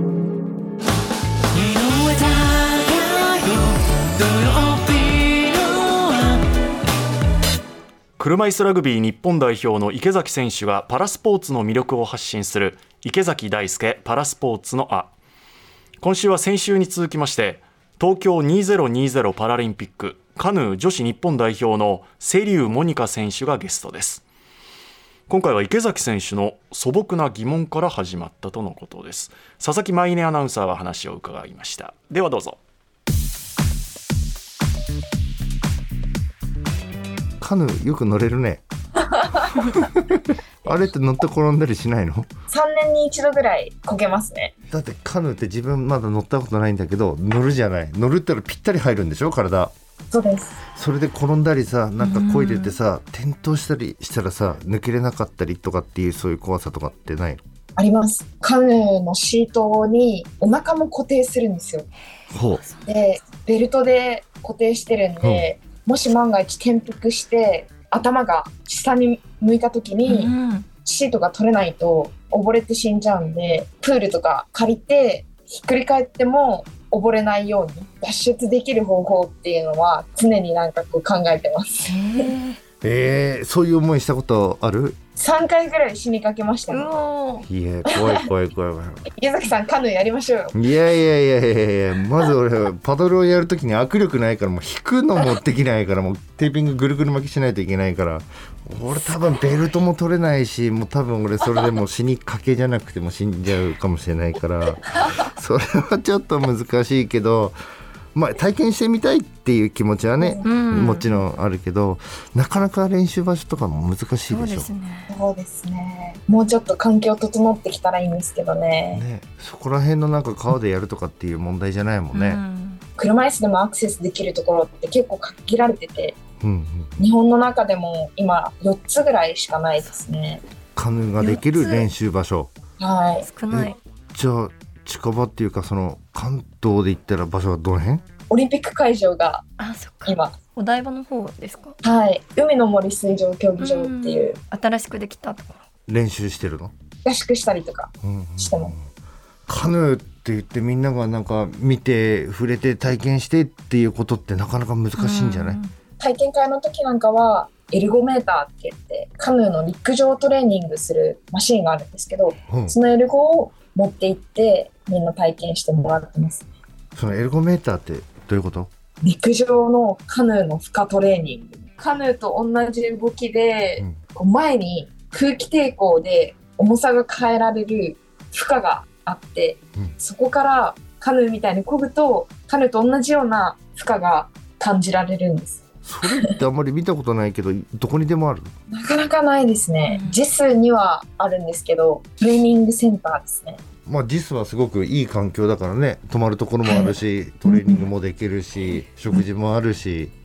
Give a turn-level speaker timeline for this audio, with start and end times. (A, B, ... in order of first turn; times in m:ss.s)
0:01.6-0:06.4 A
0:08.2-0:15.1 B
0:16.0-0:24.2 B
0:25.3-0:32.6 B
0:37.4-0:38.6 C
0:39.2-0:39.5 D
0:39.6-0:42.3 C
0:42.5-0:44.5 D
0:44.7-0:49.7 C
0:50.1-0:50.6 D
0:50.7-0:57.4 C
0:52.0-0:52.8 E
0:57.8-1:01.9 D
1:02.3-1:02.6 C
1:02.6-1:02.9 E
1:02.9-1:22.3 D
1:05.2-1:05.5 C
1:10.1-1:10.7 E
1:21.9-1:22.6 E
1:22.8-1:25.0 C
1:25.2-1:26.9 D
1:26.7-1:27.5 E
1:27.5-1:29.1 C
1:29.1-1:30.6 D
1:30.5-1:47.6 C
1:48.2-1:54.7 C
1:50.2-1:50.5 D
1:50.4-1:51.1 E
1:54.3-1:55.1 E
1:55.1-1:59.0 D
1:58.9-2:02.4 C
2:02.1-2:02.8 E
2:03.0-2:06.2 D
2:06.4-2:07.0 C
2:07.0-2:10.4 D
2:10.8-2:12.5 C
2:11.2-2:11.9 E
2:12.8-2:13.3 D
2:13.2-2:13.8 E
2:13.5-2:18.0 C
2:18.3-2:19.5 D
2:19.6-2:21.8 E
2:20.0-2:20.4 D
2:21.8-2:24.4 D
2:23.6-2:25.6 E
2:25.9-2:26.7 C
2:27.0-2:28.8 D
2:28.0-2:28.8 C
2:29.5-2:35.6 C
2:35.0-2:35.7 E
2:36.0-2:46.4 D
2:42.5-2:42.8 C
2:47.0-2:48.7 C
2:49.0-3:06.4 D
3:05.8-3:08.5 C
3:08.7-3:13.6 D
3:09.9-3:10.2 E
3:13.9-3:20.1 C